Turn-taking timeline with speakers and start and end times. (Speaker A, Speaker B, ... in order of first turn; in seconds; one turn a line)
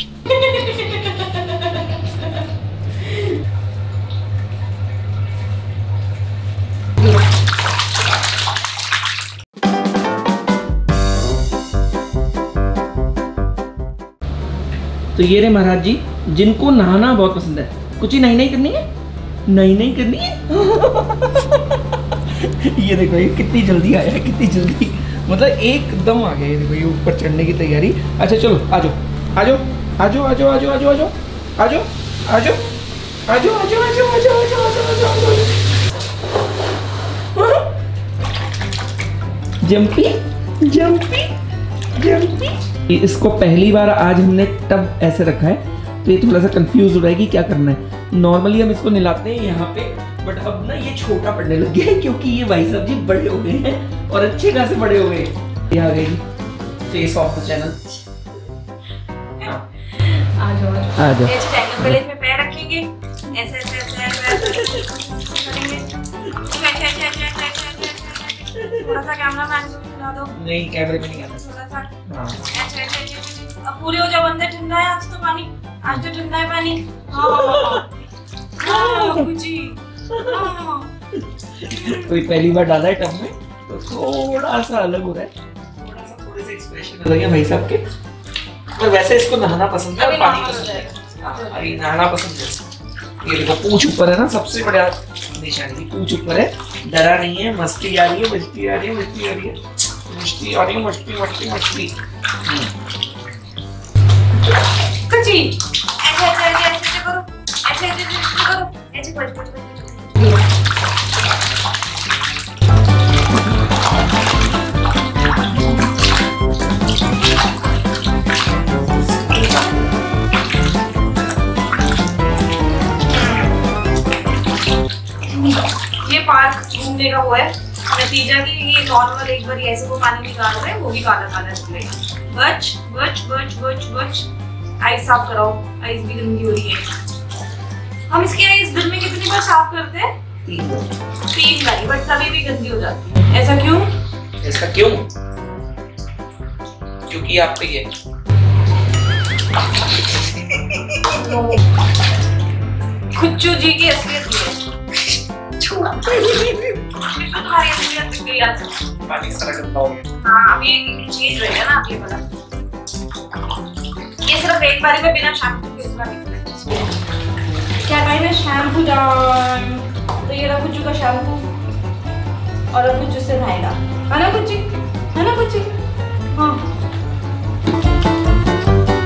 Speaker A: 0.3-1.8
Speaker B: 15.1-18.9
Speaker B: 19.5-32.6
Speaker B: 33.3-35.6
Speaker B: 37.3-37.7
Speaker B: 39.6-41.3
Speaker B: 42.0-56.2
Speaker B: 56.9-57.8
Speaker A: 59.4-77.9
Speaker B: 61.0-61.9
Speaker B: 68.6-68.9
Speaker B: 70.3-71.4
Speaker B: 72.1-72.4
Speaker B: 77.2-77.8
Speaker A: 78.6-80.9
Speaker B: 78.6-79.2
Speaker B: 81.3-87.8
Speaker A: 81.7-82.0
Speaker B: 88.8-92.6
Speaker A: 90.0-91.6
Speaker B: 93.2-102.7
Speaker A: 105.0-110.4
Speaker A: 123.2-123.5
Speaker A: 125.2-134.3
Speaker A: 134.8-136.9
Speaker A: 138.1-140.1
Speaker B: 140.4-140.9
Speaker A: 141.3-143.9
Speaker B: 144.4-145.1
Speaker B: 147.1-147.9
Speaker B: 150.5-151.1
Speaker A: 151.0-151.6
Speaker A: 153.1-154.6
Speaker A: 155.6-158.9
Speaker B: 156.3-156.7
Speaker B: 159.1-160.1
Speaker A: 160.2-162.2
Speaker A: 164.2-166.9
Speaker A: 167.8-171.5
Speaker A: 172.7-175.7
Speaker A: 176.3-176.7